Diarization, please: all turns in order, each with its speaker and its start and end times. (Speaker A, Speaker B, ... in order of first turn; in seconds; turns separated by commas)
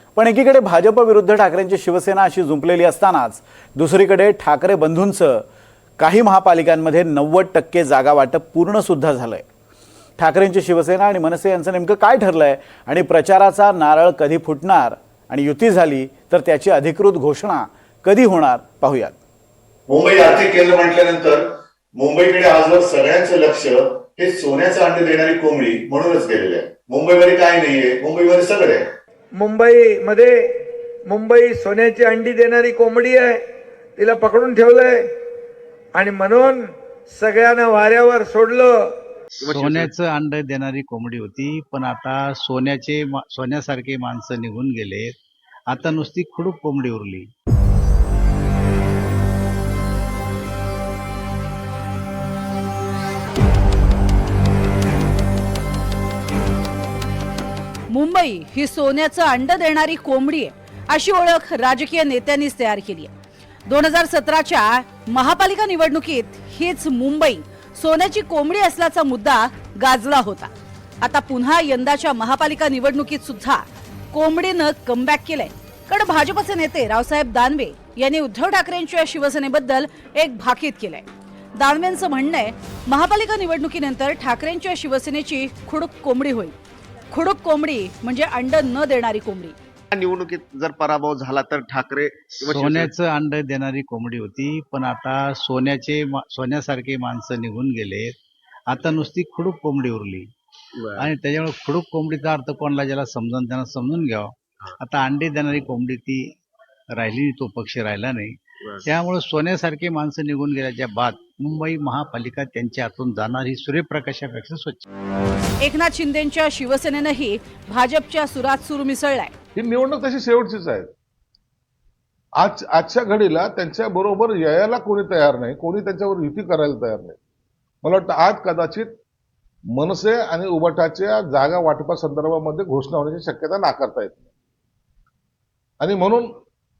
Speaker A: 0.2-5.4, Speaker A: 6.0-9.4, Speaker A: 10.2-19.1, Speaker B: 19.9-21.4, Speaker B: 21.9-28.8, Speaker C: 29.4-30.5, Speaker C: 31.1-33.4, Speaker C: 34.0-35.1, Speaker C: 35.9-38.9, Speaker D: 39.4-45.1, Speaker E: 39.5-39.9, Speaker D: 45.7-47.3, Speaker F: 57.9-63.1, Speaker F: 63.7-70.5, Speaker F: 71.0-86.5, Speaker F: 87.1-89.5, Speaker E: 89.9-92.9, Speaker D: 92.4-98.1, Speaker D: 98.7-100.3, Speaker D: 100.9-106.2, Speaker D: 107.0-114.8, Speaker F: 115.6-119.3, Speaker G: 119.5-120.9, Speaker G: 122.4-127.2, Speaker G: 127.8-129.0, Speaker G: 129.7-134.2, Speaker G: 135.8-136.3